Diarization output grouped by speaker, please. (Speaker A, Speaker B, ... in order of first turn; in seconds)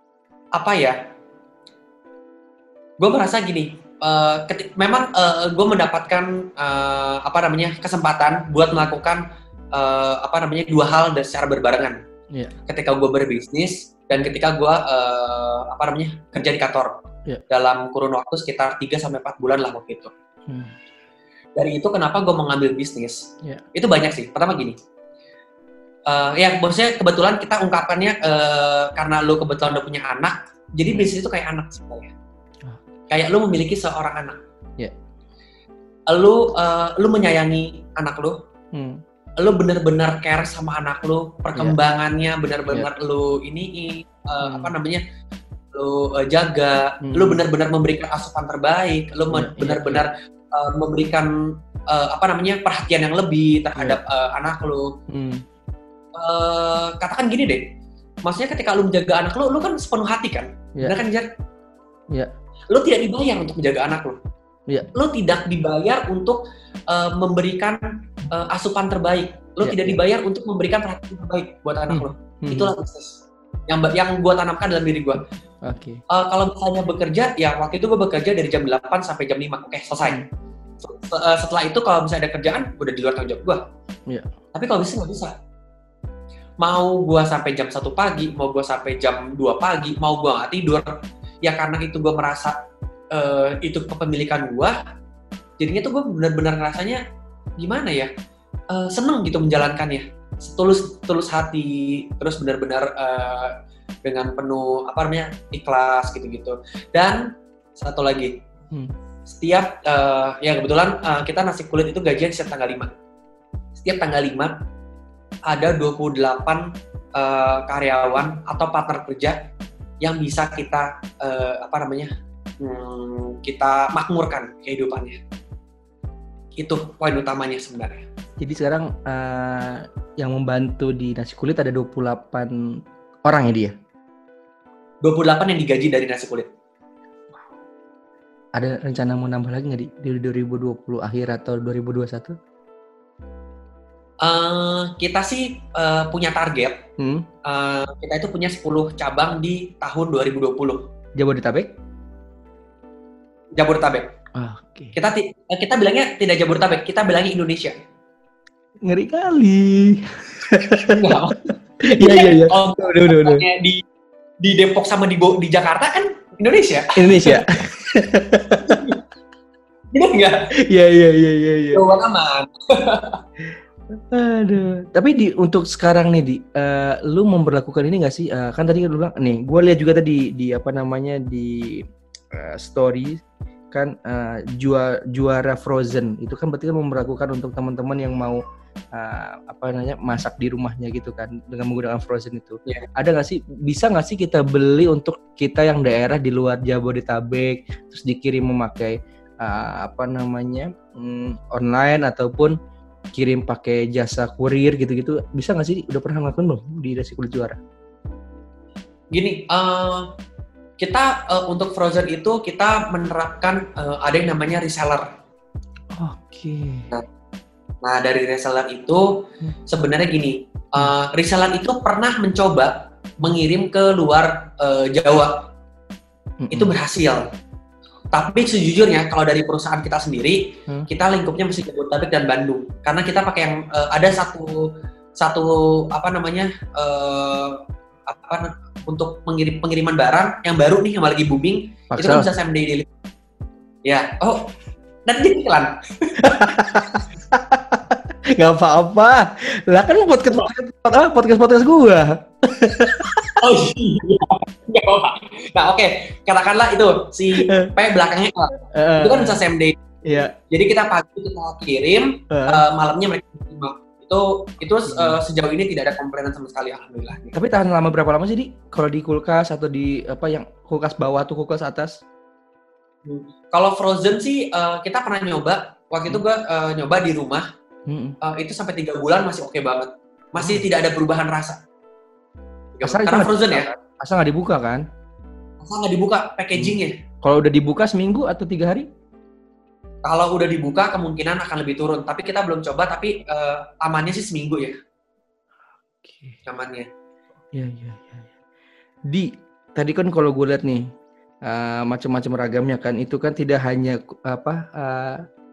Speaker A: 0.5-1.0, 3.0-12.0, 12.7-20.1, 21.6-24.8, 26.1-32.1, 33.1-34.4, 36.1-38.4, 39.4-45.0, 45.7-55.0, 56.1-57.7, 58.2-61.3, 62.7-64.2, 64.9-75.2, 76.1-80.2, 80.8-83.6, 84.5-85.3, 86.6-92.6, 93.1-94.8, 95.6-97.0, 97.6-98.1, 98.7-108.4, 109.3-112.9, 113.8-114.6, 115.5-119.4, 120.0-125.2, 126.6-128.0, 135.0-136.5, 144.2-146.8, 147.4-150.8, 153.5-154.1, 154.9-157.8, 160.8-163.8, 164.4-167.4, 168.7-169.0, 169.9-170.5, 171.7-173.2, 209.1-210.1, 210.8-215.1, 217.8-225.5, 226.5-227.3, 228.1-242.9, 243.8-244.5, 245.1-246.4, 250.3-250.5, 253.4-267.3, 273.0-277.4, 278.2-281.6, 282.7-283.7, 285.6-286.9, 290.0-294.8, 296.4-296.9
Speaker B: 20.5-20.7, 38.7-39.0, 44.4-44.7, 47.0-47.4, 49.3-50.0, 55.1-55.4, 69.6-70.0, 71.9-72.7, 75.6-76.0, 80.0-80.3, 128.4-133.7, 138.5-142.4, 147.0-147.3, 151.2-151.7, 154.3-154.9, 158.8-161.3, 161.8-163.4, 166.9-168.9, 170.6-171.8, 173.9-188.4, 188.9-202.6, 203.1-207.6, 215.9-216.9, 226.4-226.7, 241.9-242.3, 246.2-253.4, 257.4-257.7, 258.7-259.4, 260.0-260.3, 262.3-262.6, 264.9-265.2, 267.3-272.0, 277.9-278.2, 280.4-280.6, 282.8-284.9, 286.6-288.9, 296.0-296.4, 297.5-298.3, 299.1-300.9, 301.4-305.2